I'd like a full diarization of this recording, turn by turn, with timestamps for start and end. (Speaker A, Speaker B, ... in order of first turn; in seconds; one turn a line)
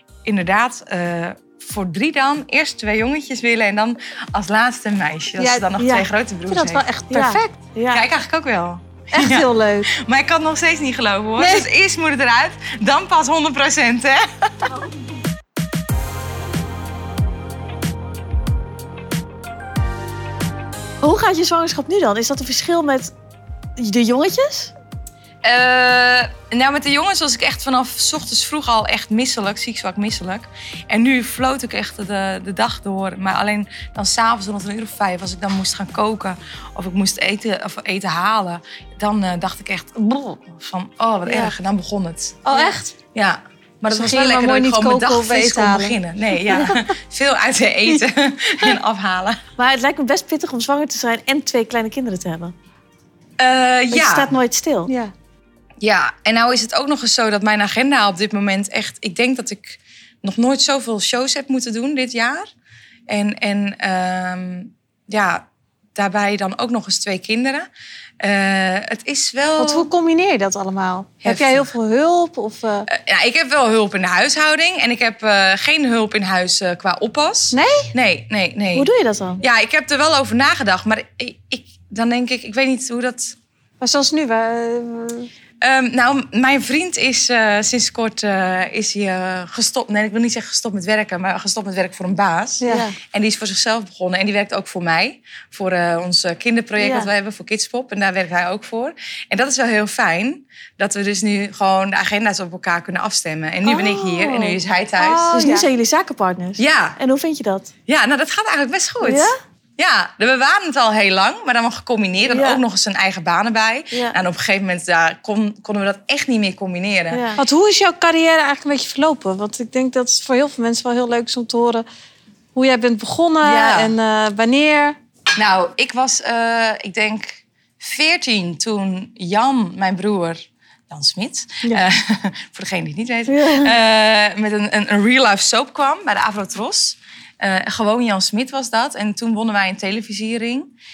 Speaker A: 0.2-6.8
Speaker B: 5.4-7.6
Speaker C: 7.1-8.0
Speaker A: 7.9-14.7
Speaker B: 9.1-9.9
Speaker B: 11.4-11.7
Speaker C: 21.0-23.1
Speaker C: 23.8-24.7
Speaker A: 25.4-42.5
Speaker B: 42.4-42.9
Speaker A: 43.1-49.4
Speaker B: 43.9-46.0
Speaker B: 46.5-46.8
Speaker C: 49.6-52.5
Speaker A: 53.4-54.3
Speaker C: 53.9-54.9
Speaker A: 55.8-62.5
Speaker A: 63.1-67.7
Speaker A: 68.2-69.9
Speaker B: 69.6-72.9
Speaker A: 71.2-71.7
Speaker A: 72.9-78.9
Speaker B: 77.5-77.9
Speaker C: 78.7-79.4
Speaker A: 79.4-83.4
Speaker B: 83.8-85.3
Speaker A: 85.6-105.3
Speaker B: 92.6-92.9
Speaker C: 92.6-92.9
Speaker C: 96.8-97.1
Speaker C: 103.6-104.6
Speaker B: 105.0-105.7
Speaker C: 105.3-107.7
Speaker A: 106.6-107.0
Speaker A: 107.9-117.2
Speaker C: 109.0-109.3
Speaker C: 112.3-112.6
Speaker C: 117.1-117.4
Speaker B: 117.4-121.8
Speaker B: 122.5-125.0
Speaker A: 123.4-123.9
Speaker A: 125.4-140.7
Speaker C: 133.3-133.7